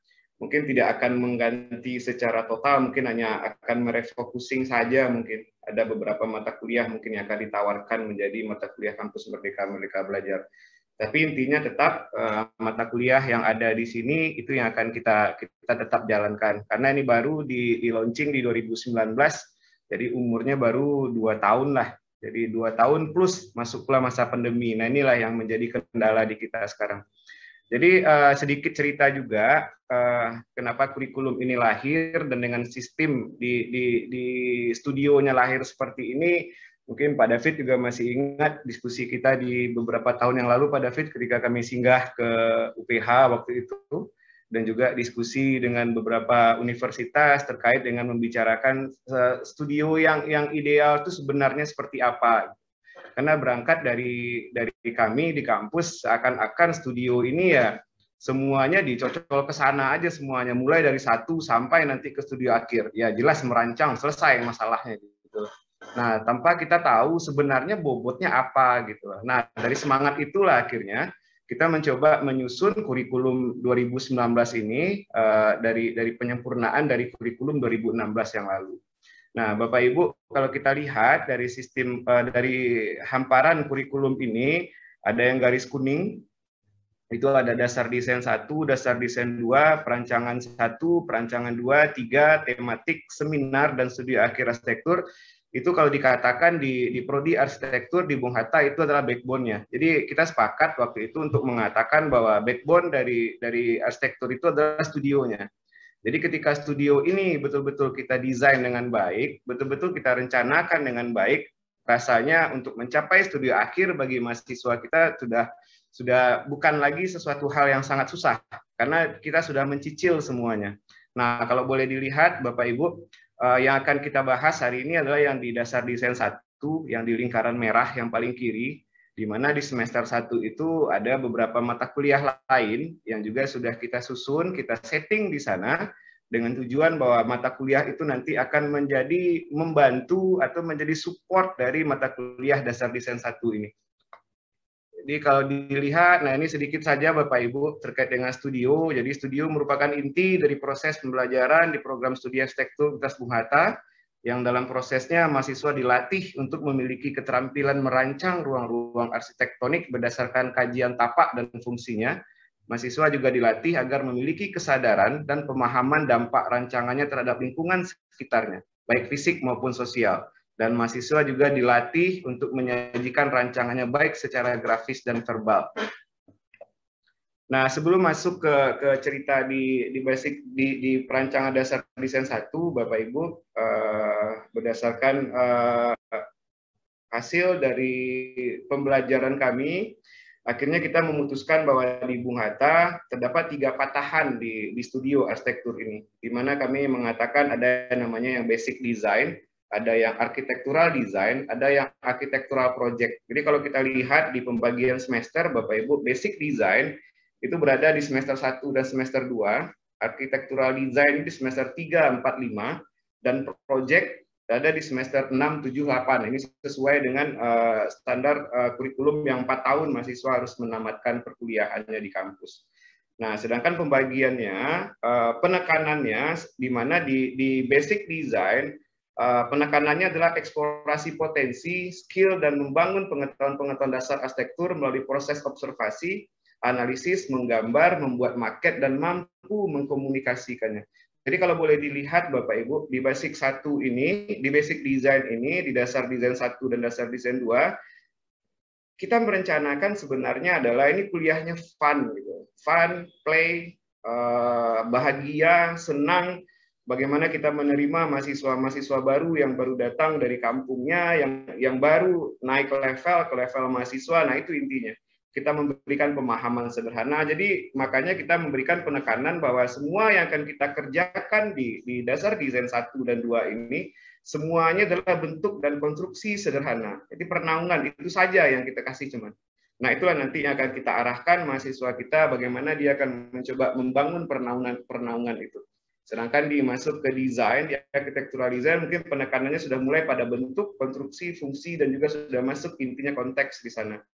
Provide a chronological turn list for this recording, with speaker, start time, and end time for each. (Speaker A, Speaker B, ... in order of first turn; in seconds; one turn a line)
Speaker A: 0.4-10.4
Speaker A: 11.0-27.0
Speaker A: 27.7-52.5
Speaker A: 53.1-78.8
Speaker A: 79.3-86.2
Speaker A: 87.1-95.0
Speaker A: 95.5-105.5
Speaker A: 106.0-143.7
Speaker A: 145.0-162.2
Speaker A: 162.7-175.8
Speaker A: 177.5-186.3
Speaker A: 187.1-189.9
Speaker A: 190.5-222.6
Speaker A: 223.2-247.7
Speaker A: 249.0-294.0